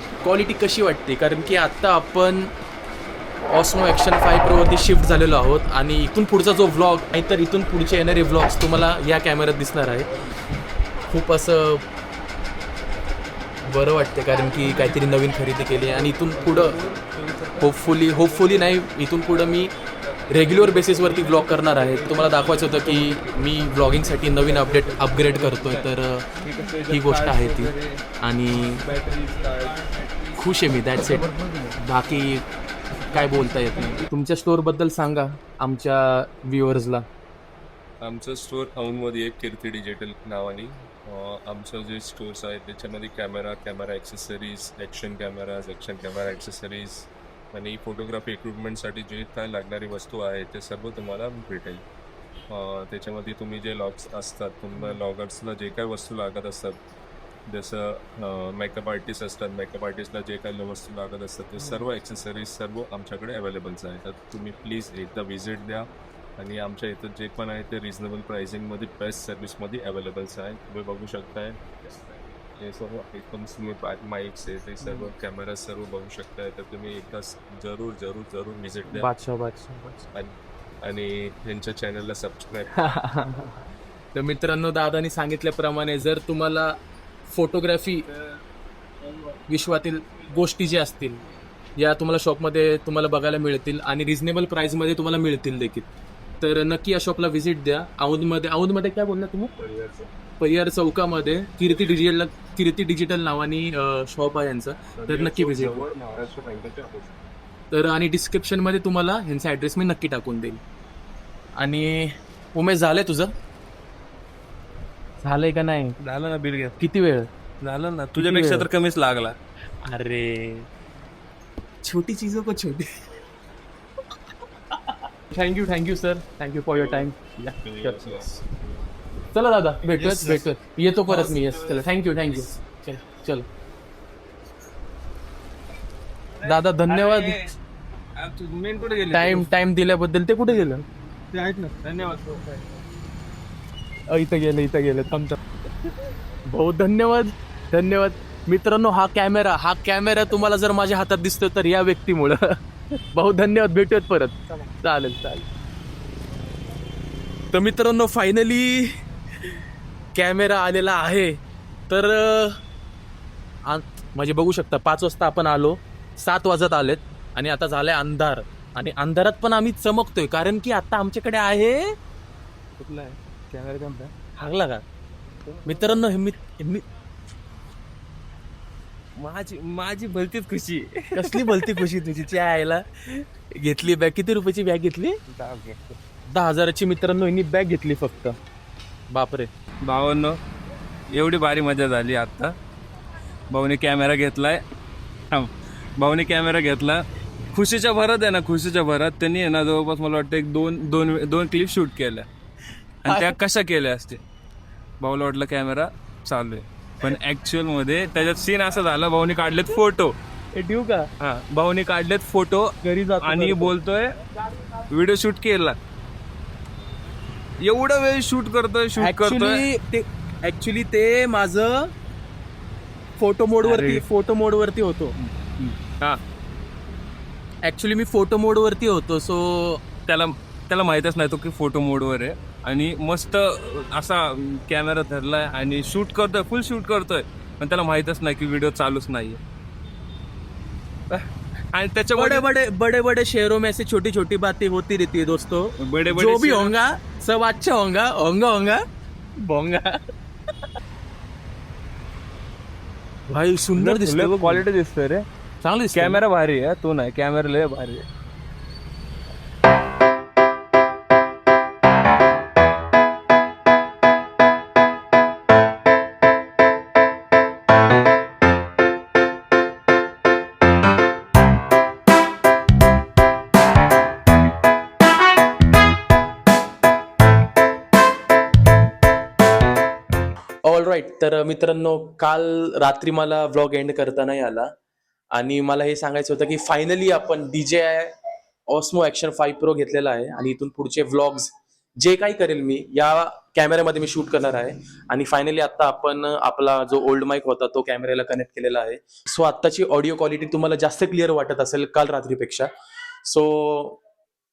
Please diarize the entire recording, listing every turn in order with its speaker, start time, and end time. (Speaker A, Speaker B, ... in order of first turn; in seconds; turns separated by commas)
Speaker A: 0.2-2.5, Speaker A: 3.5-10.2, Speaker A: 11.1-11.9, Speaker A: 13.6-16.8, Speaker B: 15.8-18.8, Speaker A: 17.6-19.7, Speaker A: 20.3-26.3, Speaker B: 20.3-28.0, Speaker A: 26.9-28.9, Speaker B: 28.6-30.1, Speaker A: 30.4-32.5, Speaker B: 31.0-31.8, Speaker A: 33.1-37.1, Speaker C: 38.0-51.8, Speaker C: 52.5-56.8, Speaker C: 57.5-71.6, Speaker C: 72.6-79.1, Speaker A: 78.9-80.1, Speaker C: 80.1-82.7, Speaker A: 82.7-86.8, Speaker A: 87.3-88.1, Speaker A: 89.5-91.2, Speaker A: 91.8-95.9, Speaker A: 96.4-99.5, Speaker C: 99.6-100.1, Speaker A: 100.4-105.9, Speaker C: 105.0-107.1, Speaker A: 107.7-110.6, Speaker A: 111.6-113.3, Speaker A: 115.2-116.0, Speaker B: 116.0-116.8, Speaker A: 116.8-117.3, Speaker B: 117.6-119.4, Speaker A: 118.2-118.7, Speaker A: 119.8-120.7, Speaker A: 121.8-123.1, Speaker A: 124.7-128.4, Speaker C: 126.8-127.0, Speaker C: 127.6-128.4, Speaker A: 129.3-133.5, Speaker B: 129.9-130.5, Speaker B: 131.1-131.9, Speaker B: 136.4-137.5, Speaker A: 136.4-137.4, Speaker B: 138.2-139.5, Speaker A: 139.1-140.8, Speaker B: 141.3-142.5, Speaker A: 144.1-145.4, Speaker A: 146.5-152.6, Speaker A: 153.1-155.5, Speaker A: 157.5-159.5, Speaker A: 160.2-161.4, Speaker A: 161.9-162.6, Speaker A: 163.7-171.9, Speaker B: 172.8-174.1, Speaker A: 174.4-174.8, Speaker B: 175.5-176.0, Speaker A: 175.7-176.9, Speaker B: 179.2-181.8, Speaker A: 181.2-185.2, Speaker B: 185.3-186.0, Speaker A: 186.3-188.3, Speaker A: 189.1-189.5, Speaker B: 189.8-190.4, Speaker B: 191.1-192.6, Speaker B: 193.5-194.6, Speaker B: 195.3-202.3, Speaker B: 203.1-204.2, Speaker A: 203.1-203.3, Speaker B: 205.0-210.2, Speaker A: 210.5-211.1, Speaker B: 211.2-214.2, Speaker A: 212.8-213.7, Speaker B: 214.9-215.8, Speaker B: 217.6-219.7, Speaker A: 219.0-221.9, Speaker A: 223.2-225.2, Speaker B: 223.6-224.0, Speaker B: 225.3-226.2, Speaker A: 227.7-229.9, Speaker B: 230.1-239.4, Speaker B: 241.1-242.5, Speaker A: 242.2-248.8, Speaker B: 245.8-246.8, Speaker A: 249.4-250.1, Speaker A: 253.3-254.7, Speaker B: 253.8-255.3, Speaker A: 255.6-256.2, Speaker B: 255.9-258.1, Speaker A: 280.6-284.7, Speaker A: 285.3-288.1, Speaker A: 288.7-302.7, Speaker A: 303.2-304.0